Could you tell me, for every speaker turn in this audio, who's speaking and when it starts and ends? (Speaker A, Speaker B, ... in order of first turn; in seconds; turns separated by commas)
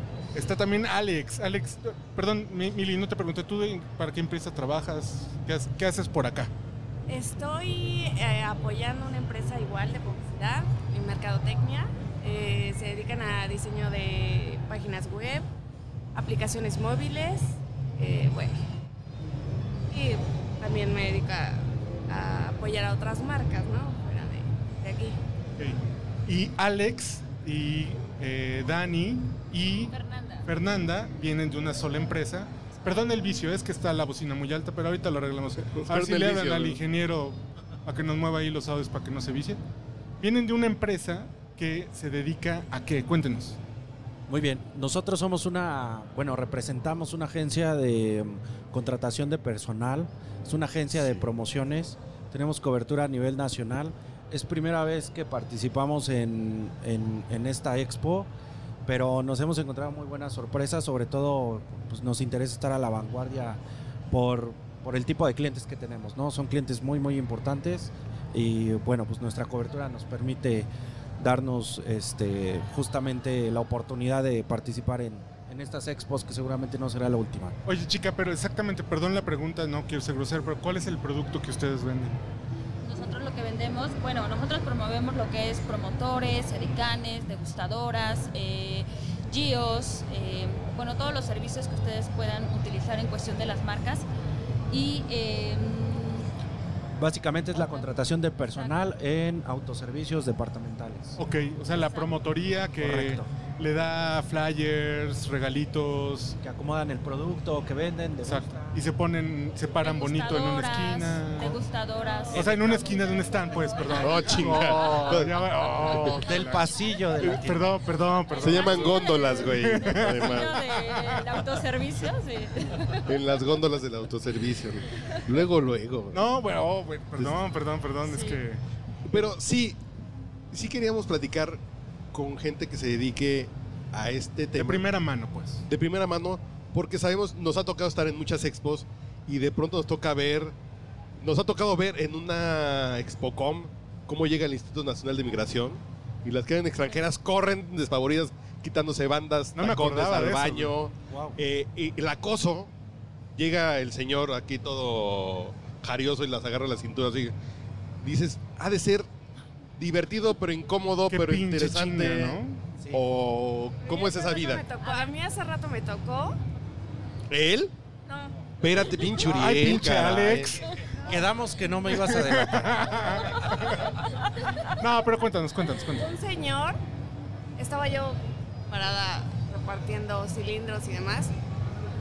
Speaker A: 0.3-6.5, Speaker B: 7.1-15.5, Speaker B: 16.1-18.6, Speaker B: 19.9-25.2, Speaker A: 25.6-39.6, Speaker C: 29.9-30.5, Speaker D: 35.7-36.8, Speaker A: 40.2-43.6, Speaker E: 44.3-58.3, Speaker D: 51.0-51.3, Speaker E: 58.9-63.6, Speaker E: 64.1-77.6, Speaker A: 77.7-82.2, Speaker C: 82.8-94.1, Speaker C: 94.7-96.3, Speaker E: 97.0-101.2, Speaker C: 97.6-97.9, Speaker C: 98.5-98.9, Speaker A: 101.2-106.4, Speaker C: 101.7-102.2, Speaker E: 102.8-103.3, Speaker E: 106.4-108.8, Speaker A: 108.3-111.6, Speaker C: 109.8-113.3, Speaker A: 112.3-116.7, Speaker C: 113.9-115.0, Speaker D: 114.0-116.2, Speaker E: 116.2-117.7, Speaker A: 117.2-121.3, Speaker C: 118.3-123.1, Speaker D: 118.4-120.7, Speaker D: 123.1-126.2, Speaker A: 126.1-128.6, Speaker C: 128.1-128.4, Speaker D: 129.1-129.8, Speaker D: 130.5-131.6, Speaker D: 132.1-134.9, Speaker A: 134.6-135.7, Speaker D: 135.7-140.6, Speaker D: 141.2-152.7, Speaker A: 149.6-150.7, Speaker E: 151.1-151.4, Speaker D: 153.4-157.3, Speaker D: 158.0-159.1, Speaker D: 159.8-164.7, Speaker A: 161.1-162.6, Speaker E: 162.8-163.0, Speaker B: 163.8-166.4, Speaker D: 167.3-167.7, Speaker B: 168.1-168.3, Speaker D: 168.6-170.7, Speaker A: 169.2-170.6, Speaker E: 171.1-172.9, Speaker A: 171.9-174.0, Speaker A: 174.7-176.1, Speaker B: 176.0-176.8, Speaker B: 177.6-178.2, Speaker B: 178.7-181.3